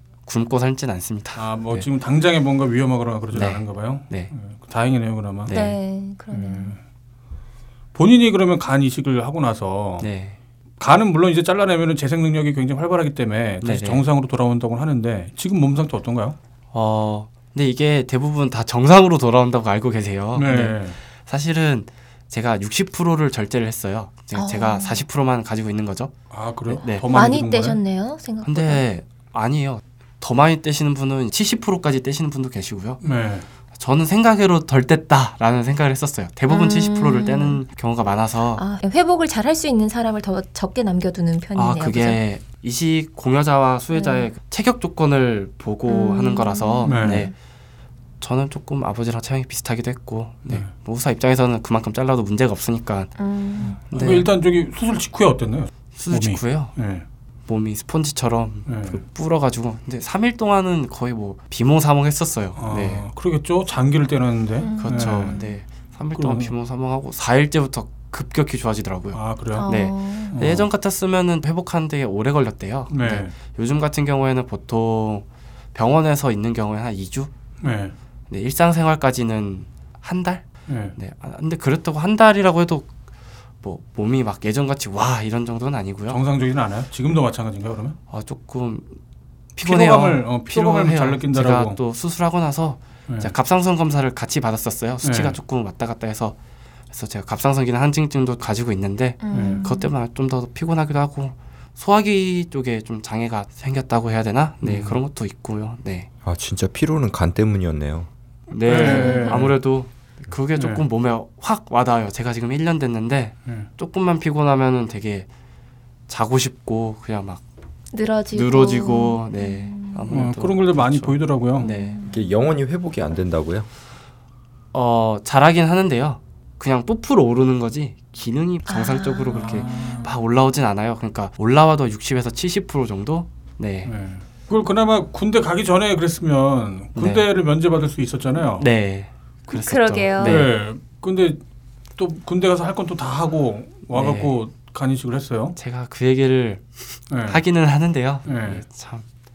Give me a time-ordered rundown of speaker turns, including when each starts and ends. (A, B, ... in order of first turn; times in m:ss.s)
0:00.2-0:01.9 A
0:01.4-0:05.6 B
0:03.3-0:04.3 A
0:05.4-0:05.8 A
0:05.5-0:06.7 C
0:06.3-0:06.8 B
0:07.9-0:10.1 B
0:10.0-0:10.4 A
0:10.8-0:16.4 B
0:13.6-0:14.0 A
0:16.7-0:26.1 A
0:20.3-0:21.0 B
0:24.3-0:25.0 C
0:26.3-0:27.8 B
0:26.7-0:27.0 A
0:27.0-0:28.8 C
0:28.4-0:33.0 A
0:33.0-0:33.4 B
0:33.8-0:38.6 A
0:36.5-0:37.6 C
0:38.6-0:42.2 C
0:41.5-0:47.3 A
0:43.9-0:44.3 C
0:45.9-0:47.3 C
0:46.8-0:47.3 B
0:48.2-0:53.1 A
0:53.2-0:53.8 C
0:53.6-0:57.0 B
0:53.9-0:54.3 A
0:56.0-0:56.7 A
0:57.5-1:03.0 A
0:58.6-0:59.0 B
1:02.6-1:05.4 B
1:04.6-1:05.5 C
1:04.8-1:17.3 A
1:06.2-1:06.5 B
1:09.1-1:09.7 B
1:09.5-1:10.4 C
1:10.3-1:10.7 B
1:12.9-1:13.3 B
1:17.6-1:17.9 B
1:18.3-1:22.9 A
1:20.7-1:20.9 B
1:23.6-1:26.2 A
1:26.1-1:28.0 B
1:28.1-1:29.0 A
1:29.5-1:36.4 A
1:29.6-1:31.8 B
1:35.0-1:35.4 B
1:36.9-1:46.1 A
1:39.2-1:39.9 C
1:39.3-1:39.6 B
1:44.6-1:45.0 B
1:46.2-1:48.1 D
1:48.5-1:55.3 A
1:48.6-1:49.6 B
1:48.8-1:49.4 C
1:50.6-1:50.8 B
1:56.1-1:57.4 A
1:57.9-2:00.1 C
1:58.3-2:02.0 A
2:00.1-2:01.7 B
2:01.6-2:02.2 C
2:02.1-2:03.7 D
2:04.7-2:13.9 A
2:08.7-2:10.1 C
2:09.3-2:10.1 B
2:13.8-2:18.7 B
2:17.0-2:17.2 A
2:18.6-2:20.5 A
2:19.5-2:20.4 C
2:20.2-2:21.4 B
2:22.0-2:25.6 B
2:23.9-2:24.3 A
2:25.6-2:26.6 A
2:27.1-2:27.4 B
2:27.2-2:29.0 A
2:28.2-2:28.6 B